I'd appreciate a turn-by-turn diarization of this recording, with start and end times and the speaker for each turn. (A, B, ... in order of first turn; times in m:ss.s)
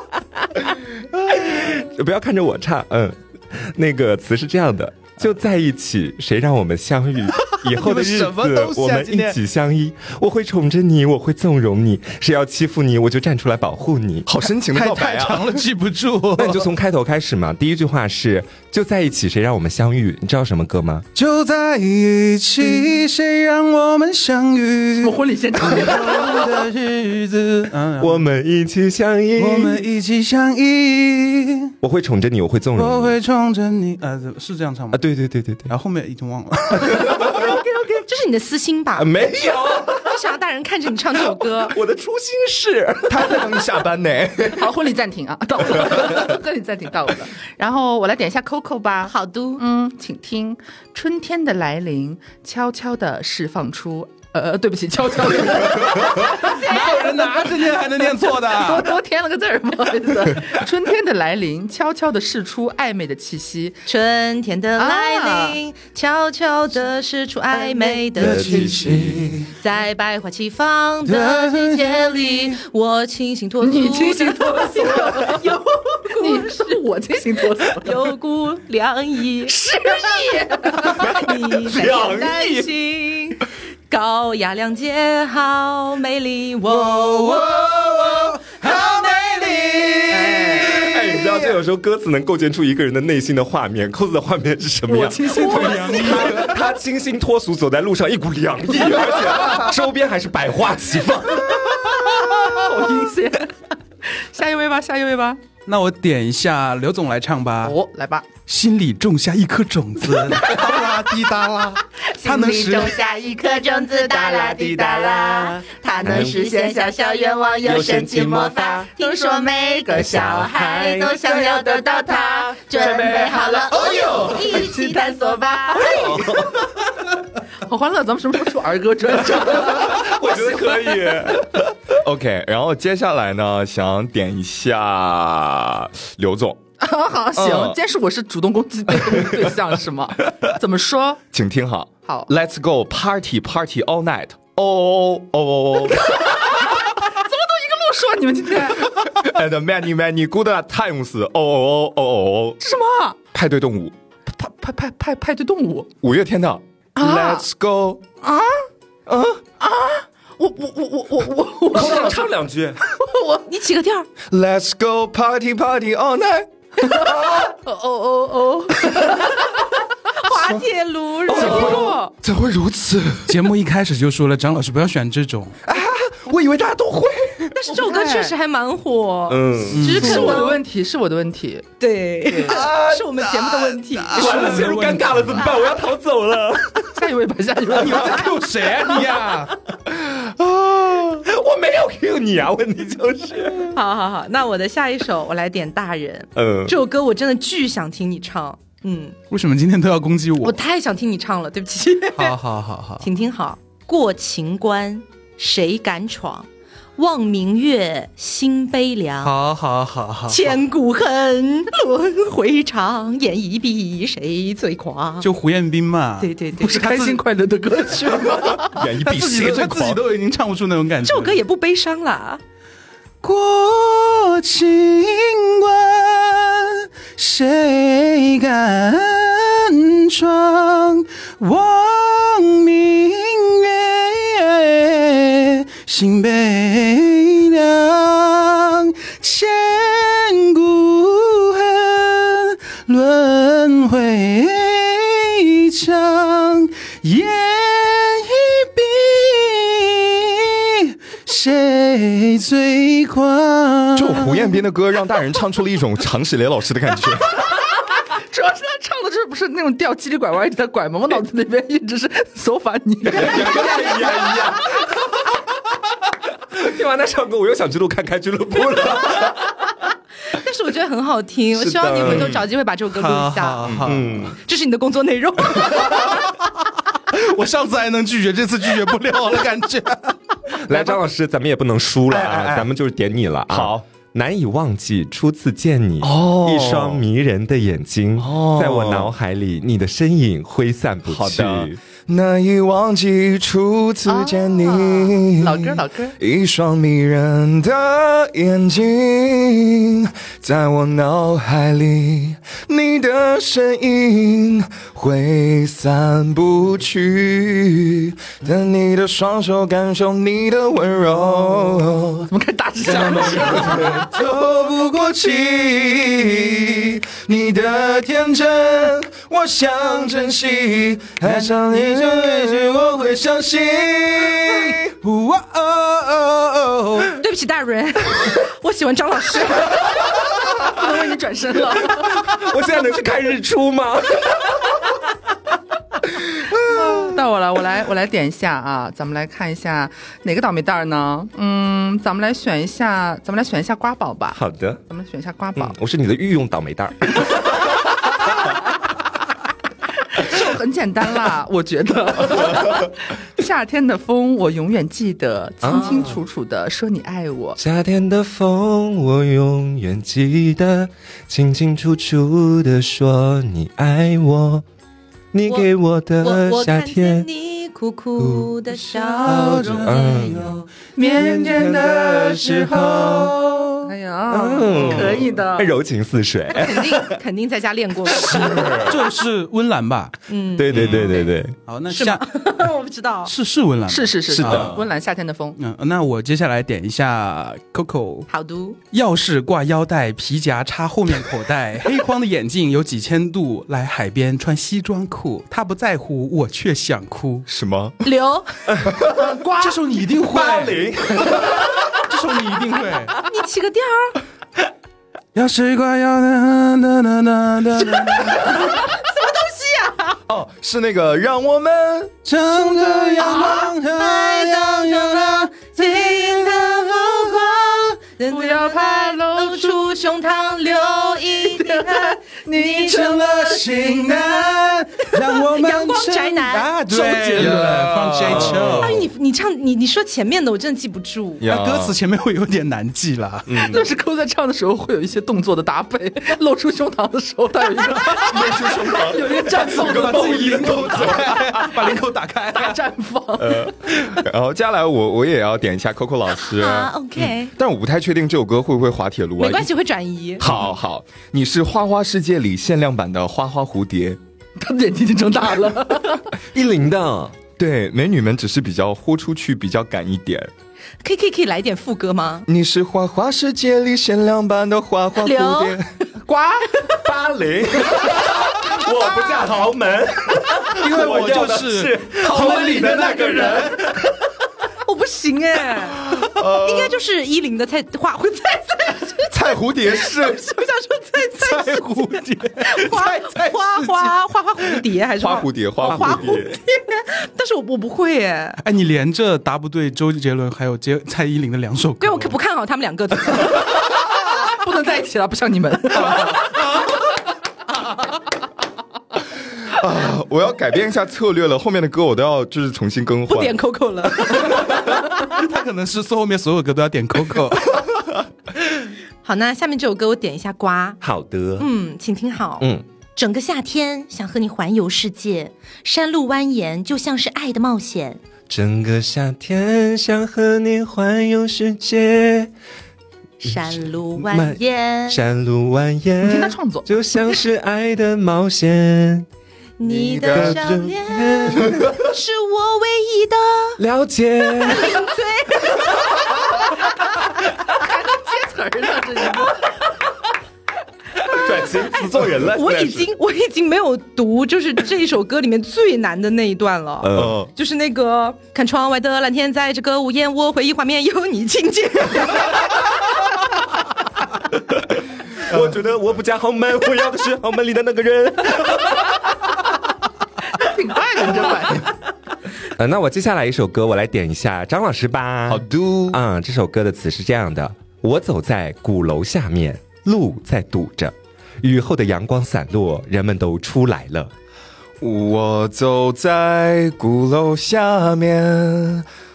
0:00.5-0:14.3 A
0:07.4-0:09.4 B
0:14.2-0:15.6 C
0:14.6-0:16.7 B
0:16.4-0:21.0 A
0:21.1-0:28.3 B
0:25.0-0:26.6 D
0:28.0-0:29.8 A
0:29.4-0:31.7 B
0:31.8-0:33.2 A
0:32.8-0:35.0 B
0:34.9-0:35.7 A
0:35.7-0:37.4 B
0:36.8-0:37.7 A
0:37.2-0:39.1 E
0:39.0-0:40.2 A
0:39.9-0:41.8 E
0:41.2-0:43.5 A
0:43.1-0:44.7 C
0:44.5-0:57.8 D
0:49.0-0:49.6 E
0:56.0-0:59.0 B
0:56.6-0:57.0 E
0:58.4-1:03.8 D
1:03.8-1:08.6 E
1:04.8-1:05.6 D
1:07.6-1:08.0 D
1:08.1-1:09.4 B
1:08.2-1:09.4 A
1:09.6-1:16.8 E
1:11.0-1:12.0 B
1:13.6-1:15.6 D
1:16.1-1:18.1 D
1:17.8-1:19.6 E
1:19.5-1:21.3 D
1:20.8-1:27.8 E
1:21.0-1:22.7 A
1:26.7-1:30.7 B
1:28.6-1:30.0 E
1:30.0-1:30.8 D
1:30.4-1:41.8 A
1:34.9-1:36.5 D
1:35.3-1:36.5 B
1:41.8-1:43.5 D
1:44.0-1:45.4 D
1:45.6-1:47.7 B
1:47.6-1:48.3 D
1:48.5-1:53.0 B
1:52.2-1:53.1 D
1:52.5-2:06.2 E
1:56.0-1:56.5 A
1:56.2-1:56.5 D
1:57.6-1:58.9 A
1:59.0-1:59.3 D
1:59.9-2:01.2 A
2:01.2-2:06.5 D
2:03.7-2:04.5 C
2:05.8-2:06.6 A
2:07.6-2:11.3 D
2:09.6-2:11.7 A
2:11.9-2:16.6 C
2:16.8-2:21.2 D
2:17.3-2:17.8 C
2:21.3-2:26.1 C
2:26.0-2:29.1 D
2:29.2-2:32.6 C
2:32.6-2:33.2 D
2:33.3-2:33.9 C
2:34.3-2:35.9 D
2:36.0-2:38.0 C
2:37.0-2:37.4 D
2:38.2-2:38.6 D
2:39.1-2:39.4 C
2:39.6-2:42.3 D
2:41.7-2:42.8 A
2:41.8-2:42.2 C
2:43.0-2:43.4 D
2:43.4-2:44.1 E
2:44.2-2:47.5 C
2:47.0-2:49.6 D
2:50.1-2:52.1 E
2:51.3-2:53.3 C
2:51.3-2:52.1 D
2:51.3-2:51.9 A
2:53.3-2:55.6 B
2:55.6-2:57.6 C
2:57.5-3:00.6 E
2:57.7-2:58.3 D
2:59.3-3:00.1 A
2:59.7-3:00.4 B
2:59.9-3:01.7 D
3:01.8-3:04.6 E
3:02.2-3:02.6 D
3:02.4-3:03.8 C
3:04.1-3:05.5 B
3:04.1-3:06.9 A
3:06.9-3:08.4 D
3:07.7-3:09.6 B
3:09.9-3:13.8 A
3:13.7-3:19.1 E
3:16.3-3:16.7 A
3:19.3-3:20.6 B
3:20.4-3:22.4 E
3:22.1-3:23.0 B
3:23.0-3:29.3 E
3:29.2-3:30.6 B
3:30.3-3:35.3 E
3:35.2-3:37.2 B
3:36.2-3:36.9 E
3:36.6-3:38.8 D
3:38.6-3:40.0 C
3:39.0-3:41.4 B
3:41.0-3:42.4 E
3:43.2-4:14.3 B
4:14.0-4:17.4 C
4:18.3-4:24.6 D
4:23.0-4:24.9 A
4:26.5-4:29.7 A
4:30.3-4:33.7 E
4:31.5-4:32.4 A
4:32.9-4:34.3 B
4:33.6-4:33.9 C
4:33.8-4:34.4 A
4:34.3-4:36.1 E
4:35.7-4:36.2 B
4:36.9-4:40.2 B
4:40.6-4:51.8 A
4:42.1-4:42.7 C
4:43.5-4:43.8 C
4:46.0-4:47.0 C
4:48.2-4:49.1 C
4:51.1-5:12.3 C
4:54.1-4:56.2 D
5:12.3-5:14.0 D
5:12.9-5:25.0 C
5:12.9-5:16.0 B
5:13.1-5:14.0 A
5:21.2-5:27.1 B
5:27.2-5:30.0 E
5:30.2-5:32.3 D
5:31.9-5:34.8 A
5:36.7-5:45.7 D
5:44.3-5:44.8 A
5:45.6-5:47.3 A
5:50.1-5:57.6 D
5:55.6-5:56.2 A
5:57.6-6:04.6 A
6:05.3-6:07.3 A
6:06.2-6:10.6 E
6:08.2-6:08.6 A
6:09.1-6:10.6 B
6:09.2-6:17.2 A
6:11.0-6:15.7 D
6:14.8-6:15.2 C
6:16.5-6:18.9 E
6:18.2-6:18.9 A
6:18.5-6:20.1 B
6:20.3-6:21.3 E
6:20.6-6:21.6 A
6:20.7-6:21.0 C
6:21.7-6:22.2 B
6:21.9-6:23.3 E
6:23.3-6:24.8 B
6:23.9-6:25.6 D
6:24.3-6:24.8 A
6:25.6-6:28.3 B
6:28.3-6:28.8 E
6:28.9-6:37.5 B
6:37.5-6:38.0 C
6:38.0-6:38.5 E
6:38.7-6:39.2 A
6:39.1-6:39.8 D
6:39.6-6:41.3 B
6:40.3-6:41.8 A
6:41.9-6:43.2 B
6:43.2-6:44.2 E
6:45.3-6:48.4 B
6:48.2-6:50.2 E
6:50.3-6:52.1 C
6:52.2-6:57.2 B
6:53.2-6:53.6 D
6:53.2-7:03.2 E
6:58.3-6:59.9 D
7:01.5-7:04.4 D
7:02.7-7:09.1 B
7:05.2-7:06.7 E
7:07.0-7:08.9 C
7:07.4-7:07.8 D
7:08.3-7:08.7 A
7:08.7-7:11.4 E
7:11.4-7:12.0 C
7:11.4-7:13.7 B
7:13.5-7:13.8 C
7:13.6-7:20.6 D
7:18.2-7:21.7 C
7:19.2-7:22.8 B
7:20.2-7:21.1 A
7:22.5-7:23.7 D
7:23.4-7:29.7 C
7:26.4-7:27.5 E
7:29.4-7:30.5 E
7:30.4-7:34.2 C
7:34.6-7:36.3 D
7:36.5-7:37.4 A
7:37.6-7:40.5 C
7:41.0-7:42.5 E
7:42.5-7:45.9 C
7:45.2-7:45.8 E
7:46.1-7:46.9 D
7:47.0-7:54.1 A
7:50.6-7:53.8 B
7:54.8-8:08.6 E
7:56.2-7:57.0 C
7:59.3-8:00.5 C
8:01.4-8:04.1 B
8:05.2-8:06.5 C
8:05.8-8:06.5 A
8:08.6-8:12.4 B
8:12.0-8:13.7 E
8:13.7-8:16.6 D
8:19.6-8:23.6 C
8:23.3-8:25.1 E
8:24.7-8:27.8 B
8:29.2-8:31.0 E
8:31.0-8:31.7 A
8:31.6-8:38.2 E
8:38.5-8:42.5 A
8:43.4-8:45.2 E
8:43.4-8:49.3 A
8:46.2-8:46.9 D
8:49.8-8:53.8 E
8:50.0-8:50.5 C
8:50.3-8:52.0 A
8:53.8-8:55.0 A
8:54.6-8:56.6 E
8:57.6-8:59.9 D
9:01.3-9:03.1 A
9:02.4-9:12.9 E
9:07.0-9:07.4 A
9:07.1-9:07.5 C
9:14.7-9:19.1 A
9:20.6-9:21.9 D
9:22.8-9:34.3 A
9:25.5-9:26.2 C
9:35.0-9:39.0 C